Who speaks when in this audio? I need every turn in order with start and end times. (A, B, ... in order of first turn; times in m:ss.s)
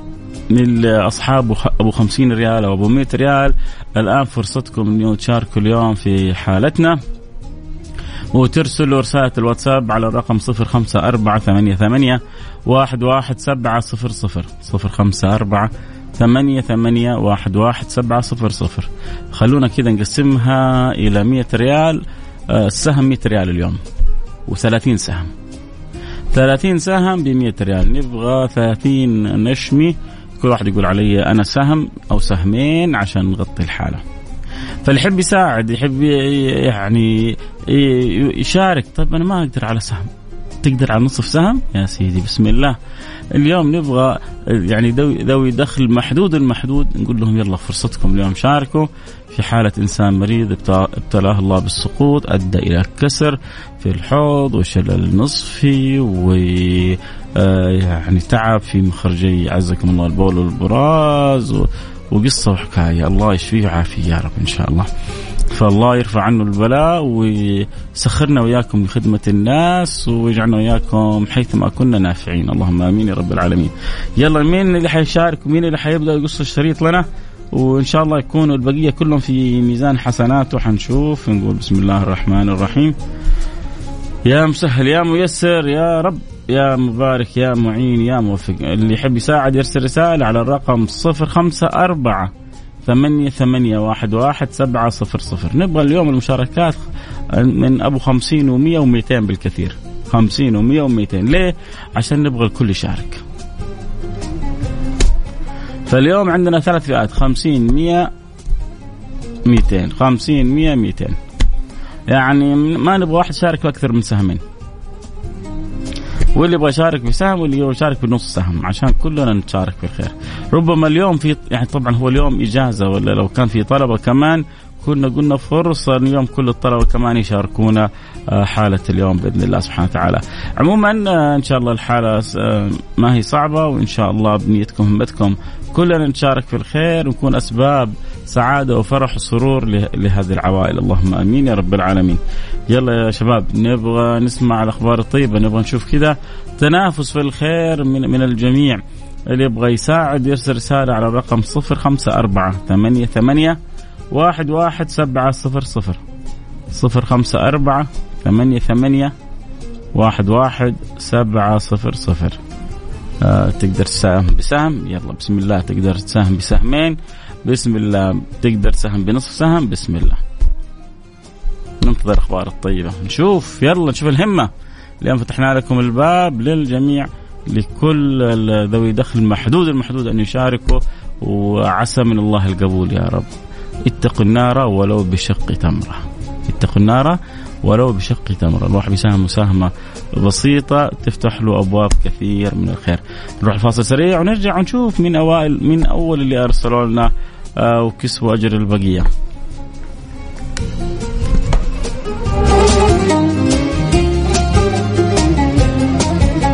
0:00.5-0:07.0 A
0:08.3-0:23.8 A
0:24.5-0:25.3 A
0:26.3-0:34.0 A
0:34.8-0:40.1 A
0:40.6-0:42.8 A
0:43.3-1:04.9 A
1:05.5-1:23.0 A
1:24.3-1:32.3 A
1:32.8-1:36.8 A
1:37.4-1:43.2 A
1:45.9-1:48.1 A
1:49.4-1:51.2 A
1:52.1-1:54.4 A
1:56.4-2:33.6 A
2:34.1-2:36.0 A
2:36.7-2:39.1 A
2:39.9-2:42.4 A
2:43.2-2:50.2 A
2:51.8-2:54.5 A
2:55.0-3:03.3 A
3:03.8-3:19.1 A